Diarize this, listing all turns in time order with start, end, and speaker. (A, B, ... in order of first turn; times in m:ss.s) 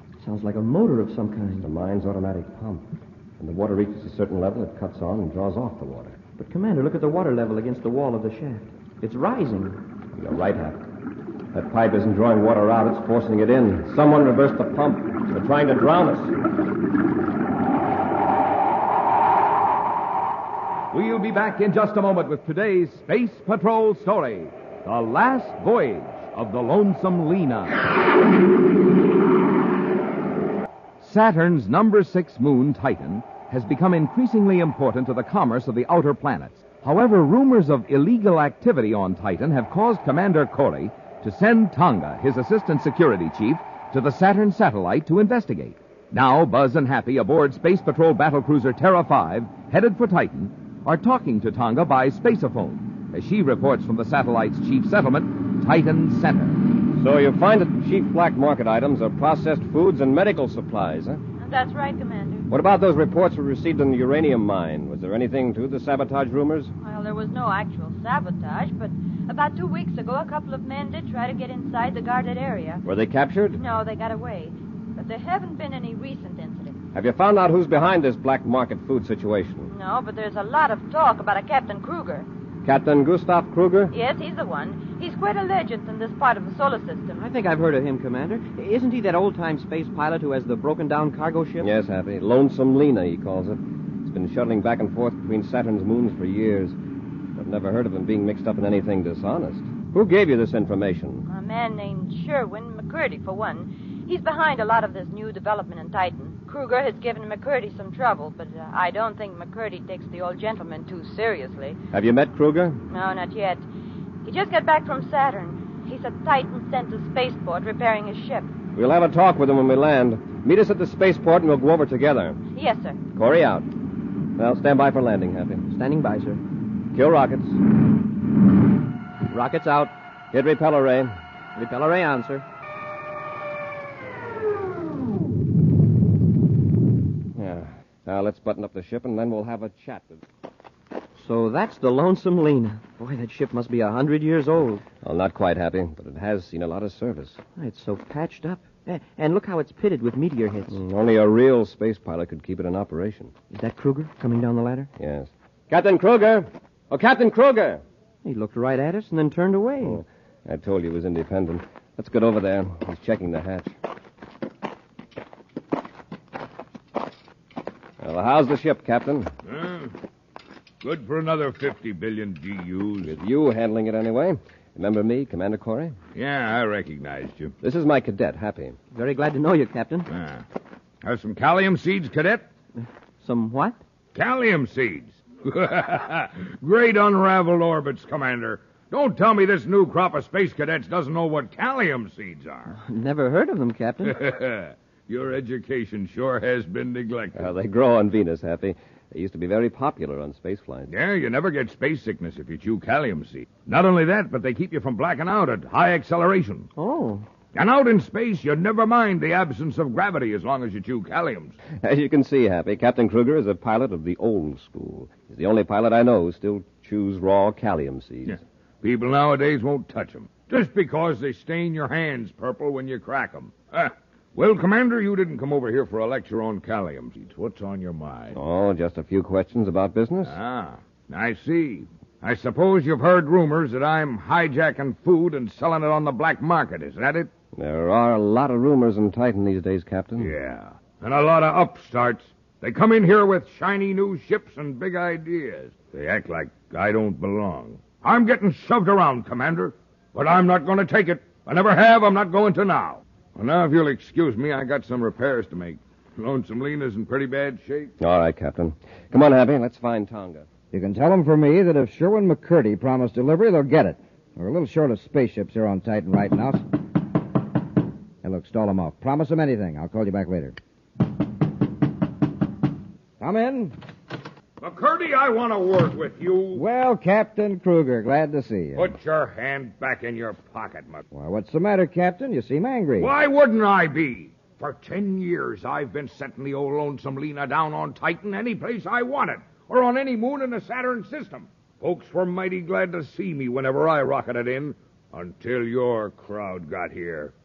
0:00.2-0:01.7 A
0:01.6-0:06.2 B
0:06.4-0:09.8 A
0:10.1-0:10.8 B
0:11.5-0:16.3 B
0:20.9-0:27.8 C
0:31.0-0:56.6 C
0:57.0-1:01.2 B
1:01.4-1:02.5 D
1:02.5-1:06.7 B
1:06.8-1:12.8 D
1:12.8-1:13.6 B
1:13.5-1:16.8 D
1:16.9-1:19.7 B
1:19.7-1:22.3 D
1:22.6-1:23.9 B
1:23.9-1:27.2 D
1:27.1-1:31.7 A
1:31.6-1:36.8 B
1:37.4-1:41.2 B
1:41.3-1:51.8 D
1:51.9-1:52.8 B
1:52.9-1:53.6 D
1:54.2-1:58.5 D
1:58.7-2:02.4 B
2:02.5-2:03.0 D
2:03.1-2:03.7 B
2:04.4-2:05.6 B
2:05.7-2:06.4 A
2:06.9-2:07.6 B
2:09.3-2:09.9 A
2:10.3-2:11.1 B
2:11.6-2:12.4 A
2:17.4-2:20.2 B
2:21.2-2:24.8 A
2:25.0-2:27.4 B
2:27.6-2:30.8 A
2:30.7-2:33.3 B
2:33.5-2:34.9 A
2:35.0-2:37.8 B
2:38.2-2:40.0 A
2:39.8-2:43.7 B
2:48.0-2:49.3 B
2:49.5-2:49.9 E
2:50.8-2:53.2 E
2:53.0-2:56.0 B
2:56.1-2:57.5 E
2:57.6-2:58.8 B
2:58.9-3:00.1 A
3:00.1-3:00.4 E
3:01.0-3:02.4 E
3:03.2-3:03.8 A
3:04.1-3:12.7 E
3:12.7-3:14.2 A
3:14.1-3:17.5 E
3:17.4-3:20.9 B
3:20.9-3:26.7 E
3:26.8-3:27.2 A
3:27.6-3:31.6 E
3:31.7-3:38.4 B
3:38.4-3:48.4 E
3:48.3-3:50.4 B
3:50.3-3:57.3 E
3:57.5-4:00.3 B
4:00.2-4:17.9 E
4:18.0-4:20.5 B
4:20.7-4:26.6 F
4:28.2-4:30.6 F
4:33.2-4:33.8 F
4:34.6-4:36.6 E
4:36.5-4:38.9 F
4:38.8-4:41.0 E
4:41.1-4:43.1 F
4:43.0-4:57.3 E